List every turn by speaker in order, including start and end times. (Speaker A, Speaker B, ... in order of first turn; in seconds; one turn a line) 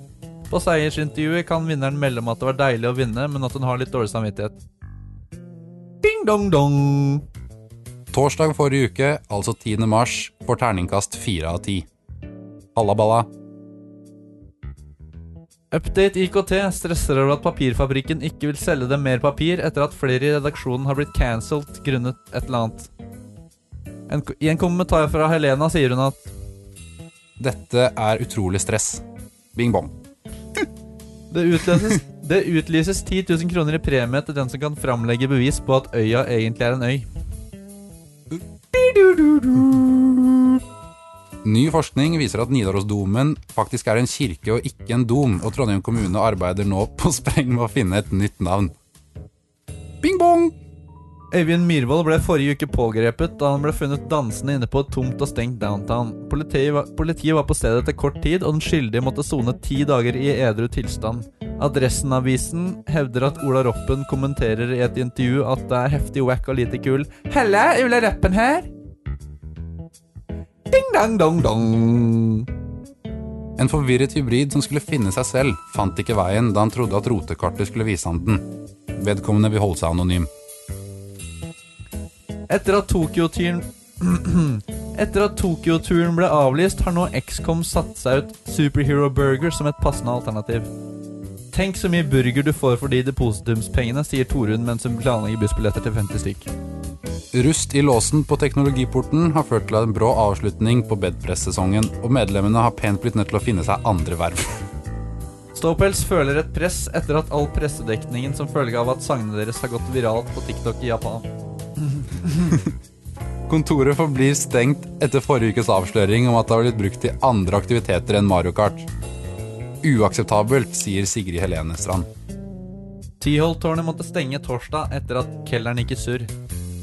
Speaker A: 0.5-4.6
Speaker A: 6.0-7.2
Speaker B: 8.1-11.9
Speaker B: 12.7-13.3
Speaker A: 15.7-22.9
Speaker A: 24.1-26.3
Speaker B: 27.4-29.0
Speaker B: 29.5-29.9
Speaker A: 31.3-37.0
Speaker A: 38.7-40.4
Speaker B: 41.4-48.7
Speaker B: 50.0-50.5
Speaker A: 51.3-68.7
Speaker A: 70.7-72.5
Speaker B: 73.6-80.3
Speaker A: 82.5-90.7
Speaker A: 91.5-96.5
Speaker B: 97.3-104.6
Speaker A: 105.5-111.2
Speaker A: 111.9-112.5
Speaker B: 113.5-118.9
Speaker B: 119.8-122.1
Speaker A: 123.2-126.3